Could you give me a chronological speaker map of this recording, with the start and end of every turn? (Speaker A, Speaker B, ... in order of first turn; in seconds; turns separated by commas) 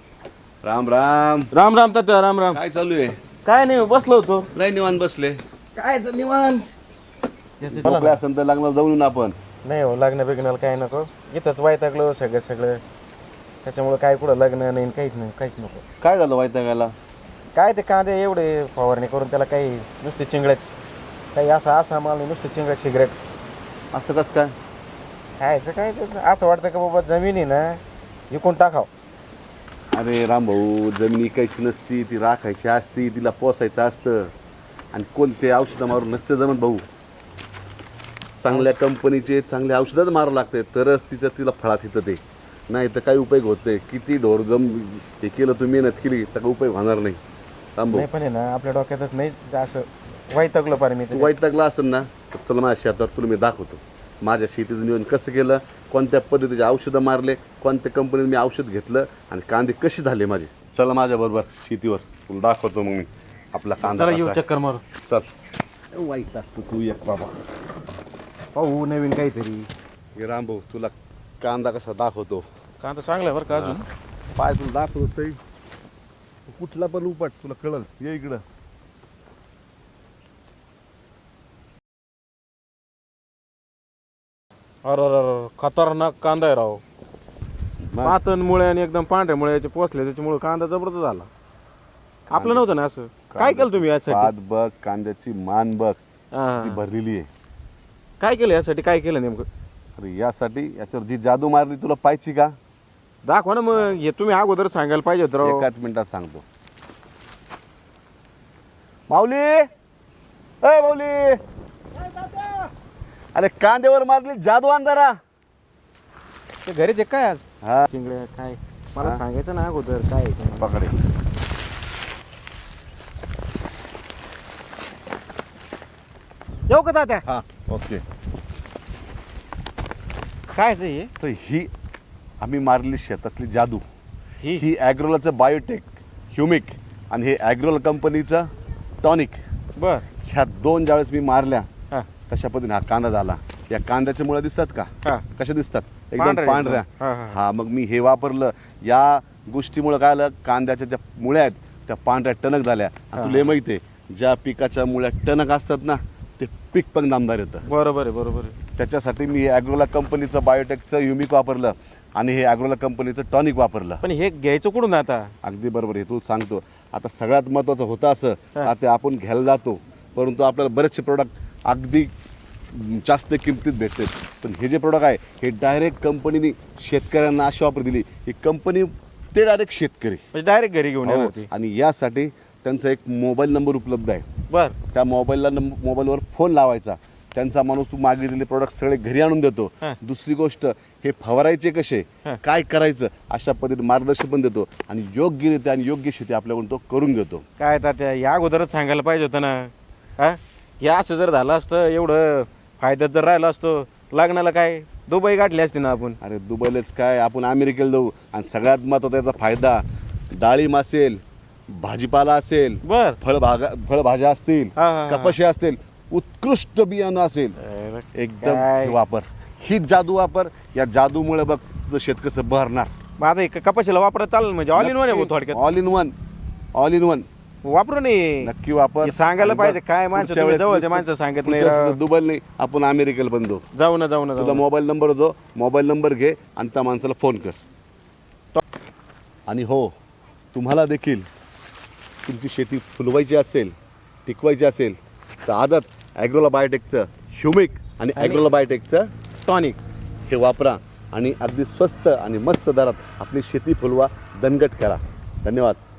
Speaker A: 0.6-1.5, Speaker B: 1.5-2.6, Speaker A: 2.5-3.1, Speaker B: 3.4-4.5, Speaker A: 4.5-5.4, Speaker B: 5.8-6.7, Speaker B: 7.6-8.2, Speaker A: 7.7-9.4, Speaker B: 9.6-12.8, Speaker B: 13.6-15.8, Speaker A: 16.0-16.9, Speaker B: 17.5-20.7, Speaker B: 21.3-23.2, Speaker A: 23.9-24.5, Speaker B: 25.4-27.8, Speaker B: 28.3-28.9, Speaker A: 29.9-34.3, Speaker A: 34.9-36.8, Speaker A: 38.4-47.2, Speaker A: 47.8-48.1, Speaker B: 47.9-51.3, Speaker A: 51.1-64.4, Speaker B: 63.8-64.8, Speaker A: 65.9-67.3, Speaker B: 68.5-69.7, Speaker A: 70.2-72.4, Speaker B: 72.8-73.9, Speaker A: 73.5-73.8, Speaker A: 74.3-75.4, Speaker A: 76.5-78.4, Speaker B: 84.8-86.8, Speaker A: 87.8-88.2, Speaker B: 88.0-91.3, Speaker B: 92.3-94.3, Speaker A: 92.3-92.7, Speaker A: 93.3-96.0, Speaker B: 96.3-96.8, Speaker A: 96.6-97.3, Speaker B: 98.2-99.5, Speaker A: 100.0-102.5, Speaker B: 103.2-105.7, Speaker A: 105.4-106.4, Speaker A: 109.1-109.7, Speaker A: 110.6-111.4, Speaker A: 113.3-115.2, Speaker B: 116.6-120.8, Speaker A: 117.6-117.9, Speaker A: 120.6-121.0, Speaker B: 126.7-127.2, Speaker A: 127.2-128.0, Speaker B: 130.5-131.1, Speaker A: 131.2-131.7, Speaker A: 132.4-133.8, Speaker A: 134.5-138.5, Speaker A: 139.0-139.4, Speaker B: 139.8-140.0, Speaker A: 140.2-141.7, Speaker A: 142.3-157.6, Speaker B: 146.2-147.4, Speaker B: 153.2-153.5, Speaker B: 157.6-158.5, Speaker A: 158.8-164.0, Speaker B: 164.0-165.3, Speaker A: 165.4-172.1, Speaker A: 172.7-180.2, Speaker B: 180.3-181.5, Speaker A: 181.0-184.2, Speaker B: 184.5-184.8, Speaker A: 184.9-197.4, Speaker B: 197.6-206.2, Speaker A: 206.2-209.8, Speaker A: 210.3-217.6, Speaker B: 212.8-213.2, Speaker B: 214.8-215.3, Speaker B: 217.6-219.0, Speaker A: 218.1-222.9, Speaker B: 223.2-225.6, Speaker A: 224.8-226.1, Speaker A: 226.7-227.3, Speaker B: 227.6-228.5, Speaker A: 228.4-233.6, Speaker B: 229.0-232.0, Speaker B: 233.7-234.6, Speaker A: 234.3-237.6, Speaker A: 239.5-239.9, Speaker A: 240.5-241.2, Speaker A: 242.2-243.7, Speaker A: 244.2-249.1, Speaker B: 248.2-248.4, Speaker B: 249.4-249.8, Speaker A: 250.3-255.8